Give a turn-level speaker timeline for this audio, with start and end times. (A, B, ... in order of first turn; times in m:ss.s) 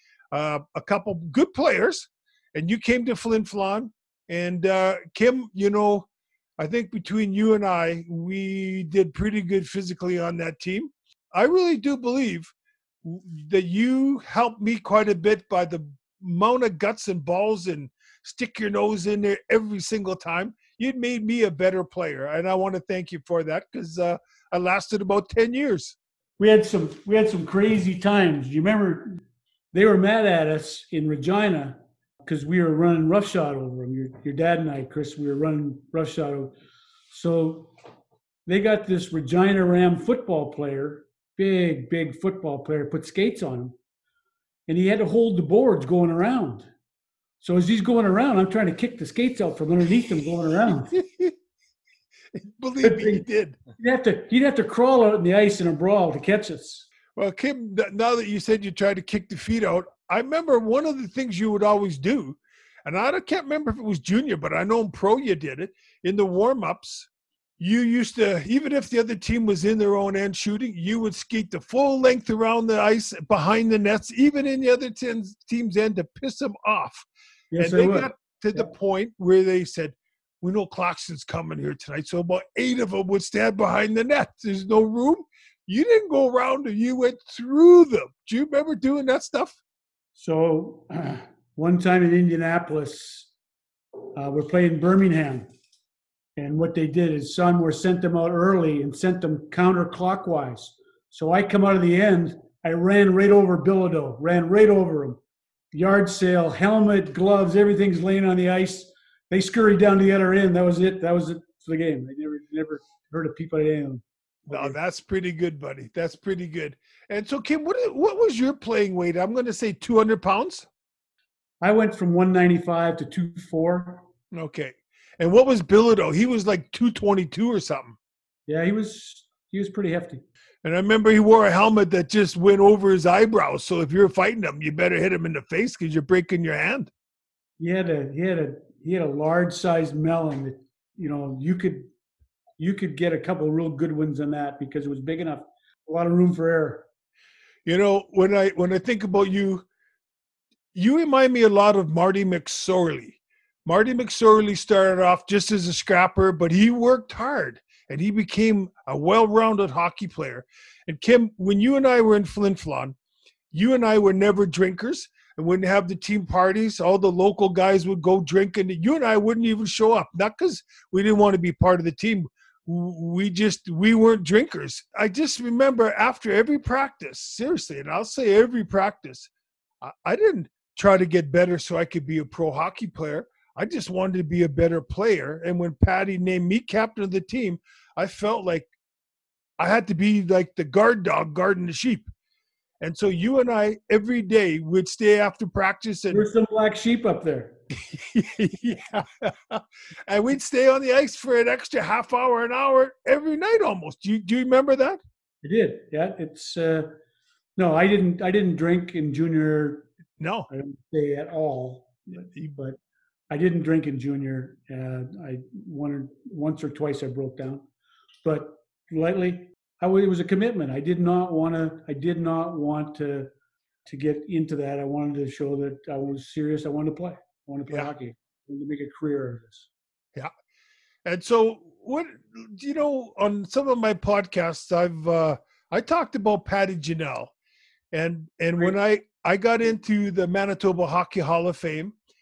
0:00.3-0:06.1 A
0:06.6-0:12.5 A
0:13.0-0:26.0 A
0:26.4-0:29.2 B
0:29.7-0:36.5 B
0:37.1-0:37.7 B
0:38.5-0:43.8 B
0:44.7-0:46.7 B
0:47.4-0:50.9 B
0:50.9-0:51.4 A
0:52.4-0:53.6 A
0:52.8-0:53.2 B
0:53.8-0:56.9 B
0:57.2-1:17.1 A
1:17.5-1:18.7 B
1:17.6-1:29.6 A
1:30.2-1:33.3 B
1:34.1-1:35.5 B
1:36.4-1:45.2 B
1:45.7-1:54.8 B
1:54.5-2:00.7 A
2:01.6-2:04.0 B
2:04.3-2:08.0 A
2:08.5-2:10.2 B
2:10.6-2:16.9 A
2:17.6-2:21.9 B
2:22.6-2:26.9 B
2:27.7-2:29.6 A
2:30.7-2:43.0 A
2:43.5-2:59.3 A
2:59.8-3:08.7 A
3:09.6-3:12.1 A
3:12.8-3:16.3 A
3:16.1-3:17.6 B
3:17.9-3:25.0 A
3:25.4-3:26.9 B
3:27.6-3:29.9 B
3:30.2-3:30.5 A
3:30.5-3:32.8 B
3:33.3-3:37.6 B
3:38.2-3:43.3 B
3:43.9-3:49.7 B
3:51.0-3:57.3 A
3:57.9-4:02.0 A